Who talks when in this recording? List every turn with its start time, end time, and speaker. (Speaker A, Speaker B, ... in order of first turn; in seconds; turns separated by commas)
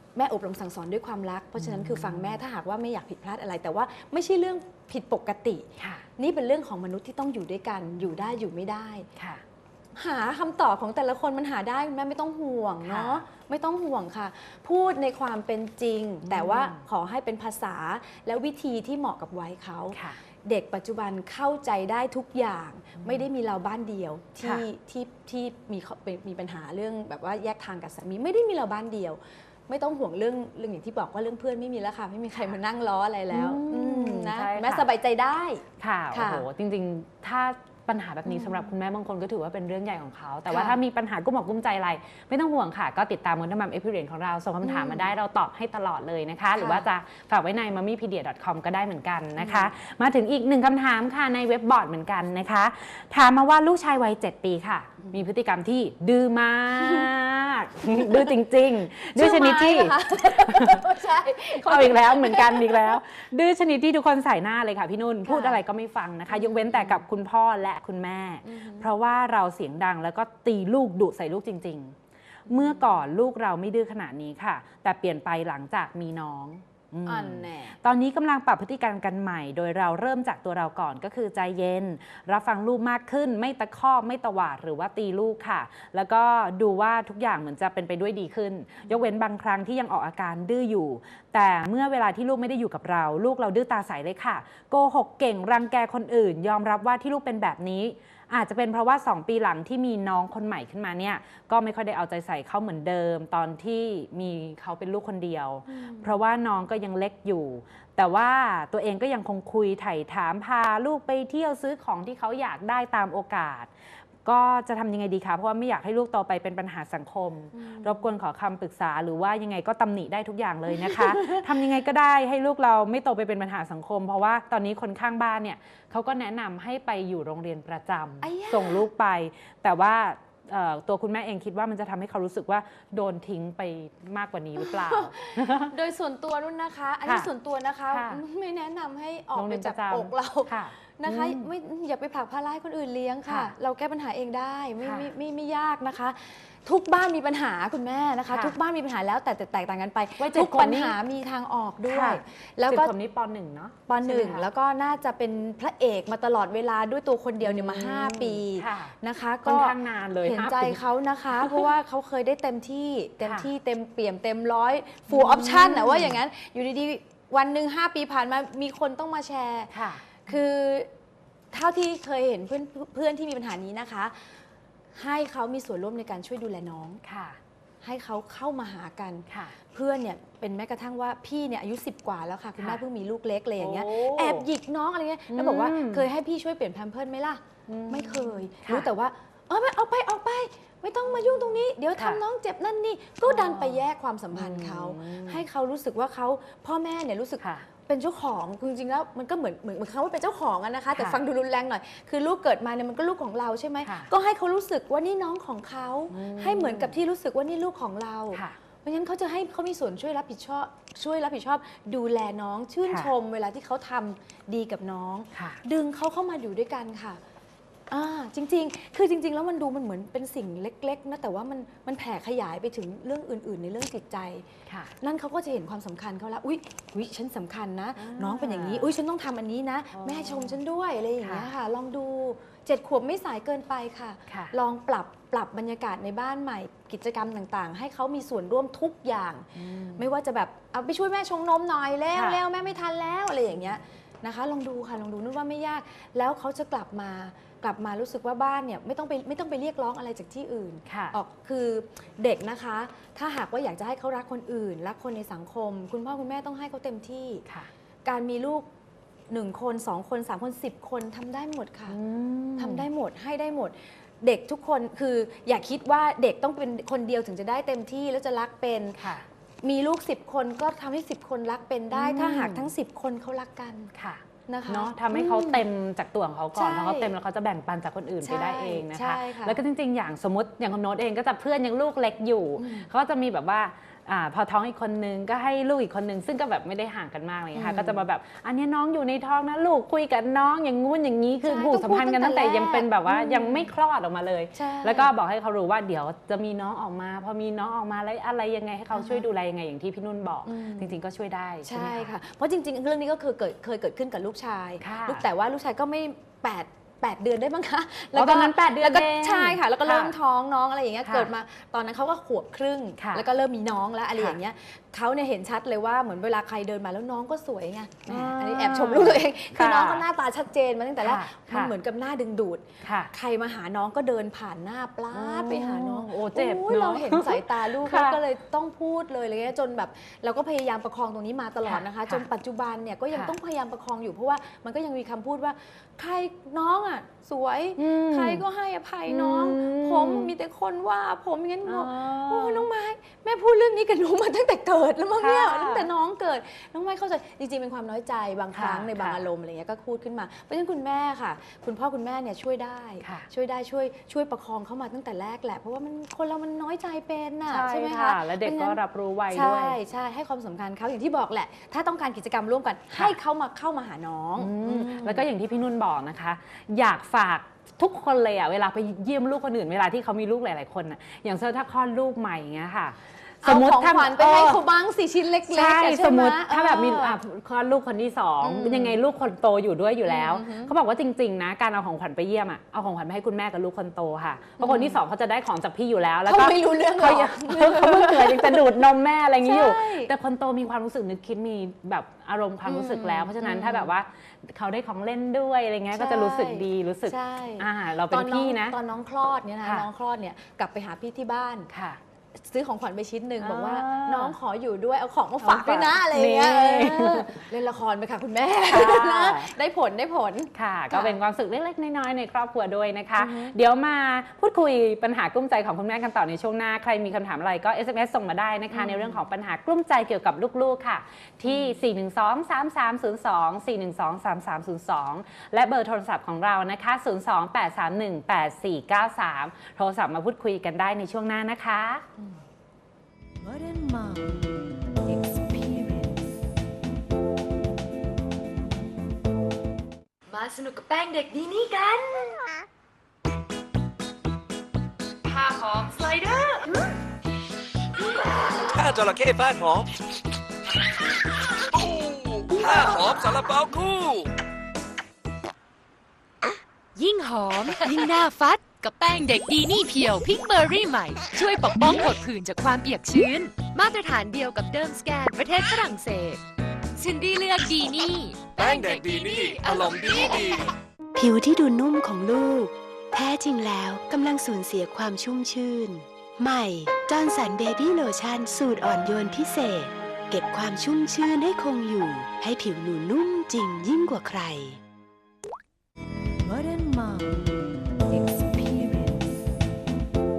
Speaker A: 0.1-9.1, Speaker B: 1.6-2.4, Speaker B: 5.8-6.0, Speaker B: 9.2-9.4, Speaker A: 9.9-36.5, Speaker B: 12.8-13.2, Speaker B: 16.2-16.8, Speaker B: 19.9-20.2, Speaker B: 23.0-23.3, Speaker B: 33.3-34.9, Speaker B: 35.8-61.0, Speaker A: 38.3-38.7, Speaker A: 40.5-40.8, Speaker A: 44.6-45.1, Speaker A: 46.5-46.9, Speaker A: 49.4-49.7, Speaker A: 56.8-57.1, Speaker A: 58.0-58.4, Speaker A: 59.1-63.0, Speaker B: 61.5-72.0, Speaker A: 65.2-65.6, Speaker A: 66.3-67.0, Speaker A: 68.5-68.9, Speaker B: 72.5-113.7, Speaker A: 72.5-73.1, Speaker A: 77.1-77.8, Speaker A: 105.8-106.1, Speaker B: 114.2-135.7, Speaker A: 117.5-118.0, Speaker A: 120.8-121.4, Speaker A: 128.2-128.8, Speaker A: 134.6-152.9, Speaker B: 137.1-137.3, Speaker B: 137.9-138.2, Speaker B: 139.3-141.5, Speaker B: 143.3-143.5, Speaker B: 144.8-145.1, Speaker B: 148.3-148.6, Speaker B: 150.2-151.0, Speaker B: 151.8-154.5, Speaker A: 153.9-170.9, Speaker B: 157.4-160.8, Speaker B: 161.4-161.7, Speaker B: 163.2-163.5, Speaker B: 165.1-166.2, Speaker B: 169.7-170.1, Speaker A: 171.5-174.4, Speaker A: 174.9-177.0, Speaker B: 177.0-177.4, Speaker A: 177.8-217.2, Speaker B: 179.3-179.6, Speaker B: 183.6-184.5, Speaker B: 185.3-186.1, Speaker B: 187.7-188.9, Speaker B: 191.1-192.2, Speaker B: 193.3-195.4, Speaker B: 197.4-197.7, Speaker B: 200.9-201.2, Speaker B: 203.8-204.1, Speaker B: 206.1-207.0, Speaker B: 215.3-215.6, Speaker A: 217.9-224.5, Speaker A: 225.0-257.4, Speaker B: 228.0-228.9, Speaker B: 229.9-230.6, Speaker B: 231.2-231.5, Speaker B: 234.3-234.5, Speaker B: 239.6-240.1, Speaker B: 242.1-242.4, Speaker B: 250.9-251.2, Speaker A: 258.1-258.7, Speaker A: 259.3-262.0, Speaker B: 261.9-262.9, Speaker A: 262.6-273.9, Speaker B: 269.0-269.2, Speaker B: 271.9-272.7, Speaker B: 273.9-302.1, Speaker A: 274.5-275.6, Speaker A: 276.6-277.1, Speaker A: 278.2-279.6, Speaker A: 282.6-282.9, Speaker A: 287.5-288.0, Speaker A: 291.4-293.7, Speaker A: 294.6-295.1, Speaker A: 298.9-299.3, Speaker A: 300.5-301.0, Speaker A: 301.6-358.8, Speaker B: 304.8-305.2, Speaker B: 308.1-310.1, Speaker B: 313.0-313.2, Speaker B: 318.1-320.1, Speaker B: 321.0-321.7, Speaker B: 322.8-323.1, Speaker B: 325.1-328.2, Speaker B: 331.6-332.2, Speaker B: 337.8-338.4, Speaker B: 339.1-340.3, Speaker B: 341.7-342.7, Speaker B: 345.2-345.9, Speaker B: 348.5-349.3, Speaker B: 357.5-359.8, Speaker A: 359.3-365.2, Speaker B: 364.4-374.6, Speaker A: 373.4-377.2, Speaker B: 375.4-398.8, Speaker A: 378.4-379.0, Speaker A: 380.1-380.7, Speaker A: 384.6-385.0, Speaker A: 386.3-388.8, Speaker A: 389.4-390.1, Speaker A: 392.6-393.9, Speaker A: 395.9-401.7, Speaker B: 401.7-402.0, Speaker A: 402.4-411.2, Speaker B: 403.4-404.4, Speaker B: 405.4-407.5, Speaker B: 408.6-409.5, Speaker B: 410.6-432.0, Speaker A: 413.2-413.6, Speaker A: 418.7-419.2, Speaker C: 433.4-434.5, Speaker C: 435.0-436.2, Speaker D: 440.3-442.5, Speaker D: 445.3-446.8, Speaker E: 448.6-449.9, Speaker E: 451.8-454.3, Speaker D: 452.8-453.2, Speaker D: 456.9-466.4, Speaker D: 467.0-470.6, Speaker E: 468.6-470.6, Speaker C: 471.2-484.8, Speaker C: 486.4-489.3